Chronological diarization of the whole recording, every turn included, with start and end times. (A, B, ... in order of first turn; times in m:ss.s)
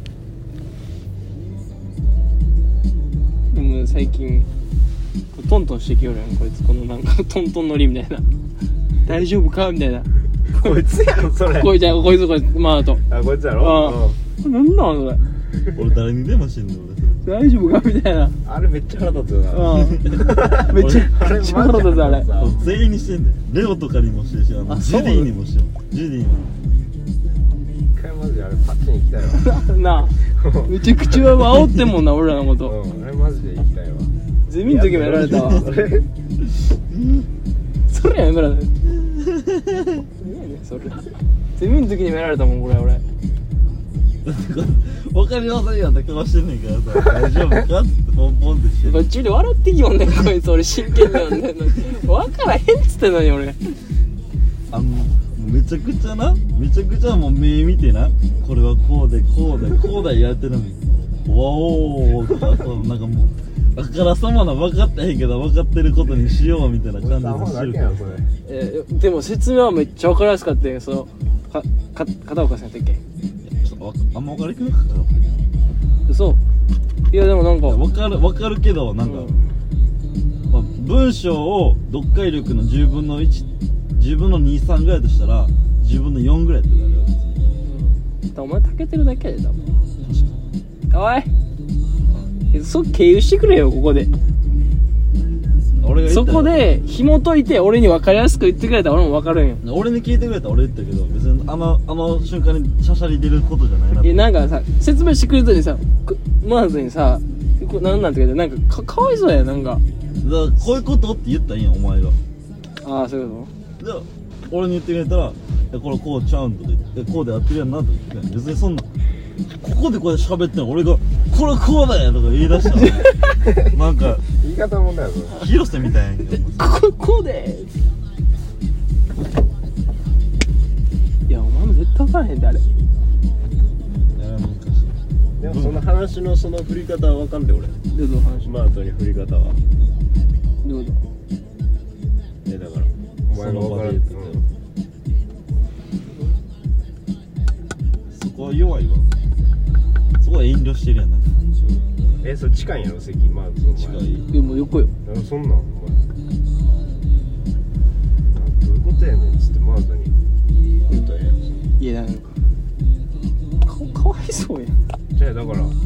0:03.5-0:04.5 A
0:05.3-0:08.3 A
0:09.0-0:10.8 A
0:10.5-0:11.8 B
0:11.4-0:13.0 A
0:13.1-0:14.2 B
0:13.6-0:15.2 A
0:15.7-0:17.2 C
0:17.2-0:18.4 A
0:18.4-0:22.8 B
0:19.5-0:22.3 A
0:19.8-0:21.1 C
0:22.3-0:26.5 C
0:24.7-0:25.3 A
0:28.0-0:29.5 B
0:29.4-0:32.8 A
0:30.2-0:31.2 B
0:32.6-0:36.0 B
0:34.5-0:35.7 A
0:35.3-0:35.7 C
0:36.9-0:37.3 C
0:37.9-0:38.7 A
0:39.0-0:40.1 C
0:40.2-0:43.0 A
0:44.2-0:49.1 C
0:48.8-0:53.6 A
0:54.7-1:08.2 C
1:07.0-1:08.3 B
1:08.5-1:13.0 A
1:13.4-1:15.4 C
1:16.1-1:16.4 A
1:17.1-1:17.8 A
1:17.7-1:19.4 C
1:19.0-1:19.4 A
1:20.5-1:27.5 C
1:27.6-1:29.6 A
1:30.0-1:30.4 C
1:30.9-1:31.3 A
1:32.5-1:34.1 A
1:35.8-1:36.7 C
1:36.1-1:39.6 A
1:39.6-1:44.3 C
1:44.0-1:49.8 A
1:50.2-1:52.2 C
1:52.8-1:53.5 A
1:53.8-1:58.9 C
1:59.6-2:04.2 C
2:02.8-2:03.2 A
2:03.4-2:03.8 B
2:04.3-2:05.4 B
2:05.3-2:06.7 C
2:06.5-2:07.7 A
2:11.3-2:12.6 A
2:14.1-2:15.8 C
2:15.4-2:17.8 B
2:17.9-2:18.5 A
2:18.4-2:19.6 B
2:20.6-2:21.0 A
2:22.4-2:24.4 B
2:23.3-2:24.4 C
2:28.1-2:29.1 C
2:30.2-2:31.7 C
2:32.2-2:34.0 B
2:33.7-2:34.3 C
2:34.3-2:34.9 A
2:35.0-2:36.0 B
2:38.3-2:40.1 B
2:40.9-2:41.5 B
2:41.8-2:42.3 A
2:43.6-2:44.8 A
2:45.2-2:45.8 B